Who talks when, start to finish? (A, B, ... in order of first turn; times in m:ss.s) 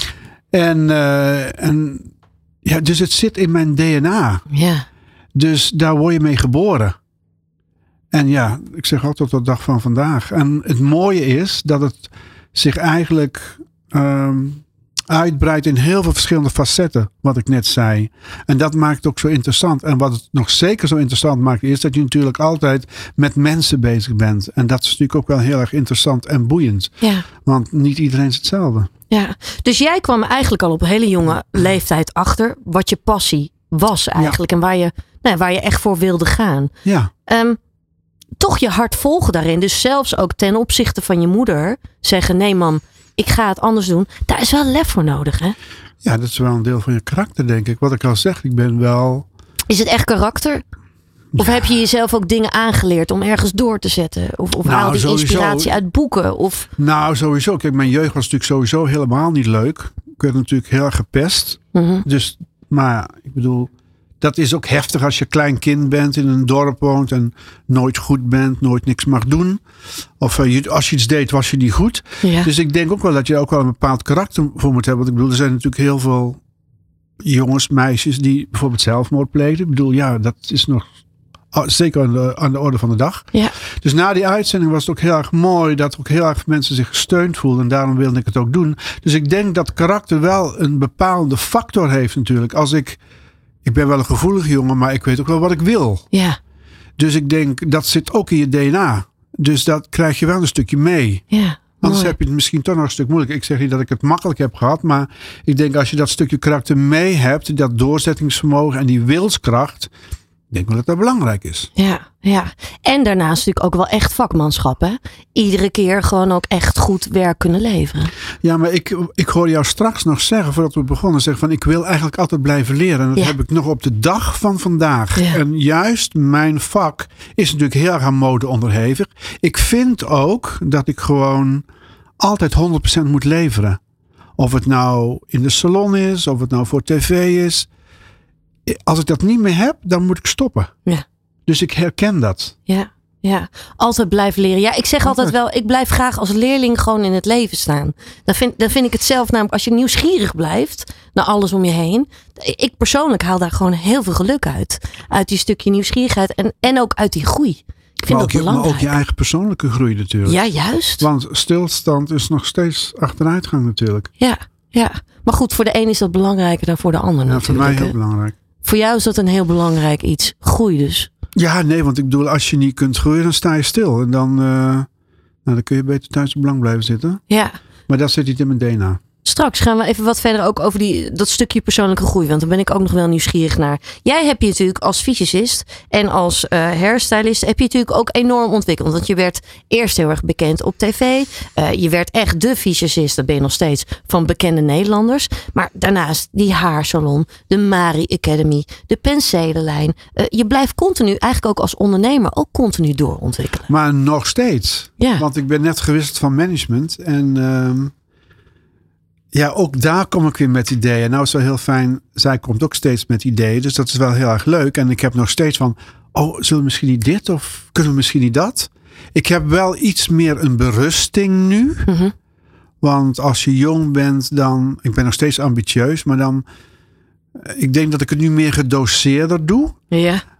0:00.5-0:02.1 A
0:02.6-0:04.5 A
0:04.5-0:04.9 B
0:05.4-0:07.0 A
0:08.1-0:28.9 A
0:27.0-0:27.3 B
0:29.1-0:36.7 B
0:36.8-0:37.1 A
0:37.3-0:37.6 B
0:38.4-0:45.6 B
0:46.0-0:49.3 A
0:49.7-0:50.6 B
0:51.4-0:51.7 A
0:51.4-0:56.7 B
0:54.6-0:55.8 A
0:56.8-1:03.7 A
1:01.7-1:02.0 B
1:04.2-1:09.6 A
1:10.2-1:16.4 A
1:12.2-1:12.5 B
1:17.2-1:20.9 A
1:21.5-1:33.0 A
1:33.6-1:36.1 A
1:36.1-1:36.4 B
1:37.0-1:41.2 A
1:41.3-1:42.2 B
1:41.8-1:49.9 A
1:50.5-1:51.7 A
1:51.8-1:58.1 B
1:58.4-2:11.6 A
2:12.2-2:13.8 A
2:14.4-2:17.7 A
2:18.7-2:20.7 A
2:21.5-2:22.6 A
2:22.7-2:38.9 B
2:25.0-2:25.3 A
2:38.1-2:40.4 A
2:40.3-2:41.1 B
2:41.0-2:44.1 A
2:44.2-2:48.0 B
2:47.3-2:48.4 A
2:48.6-2:51.1 B
2:51.4-2:54.9 A
2:55.4-2:57.2 A
2:57.3-2:57.6 B
2:57.9-2:59.0 A
2:59.2-3:23.7 B
3:23.7-3:27.9 A
3:29.3-3:41.9 A
3:41.9-3:42.1 B
3:42.8-3:46.4 A
3:47.4-3:49.8 A
3:49.9-3:50.2 B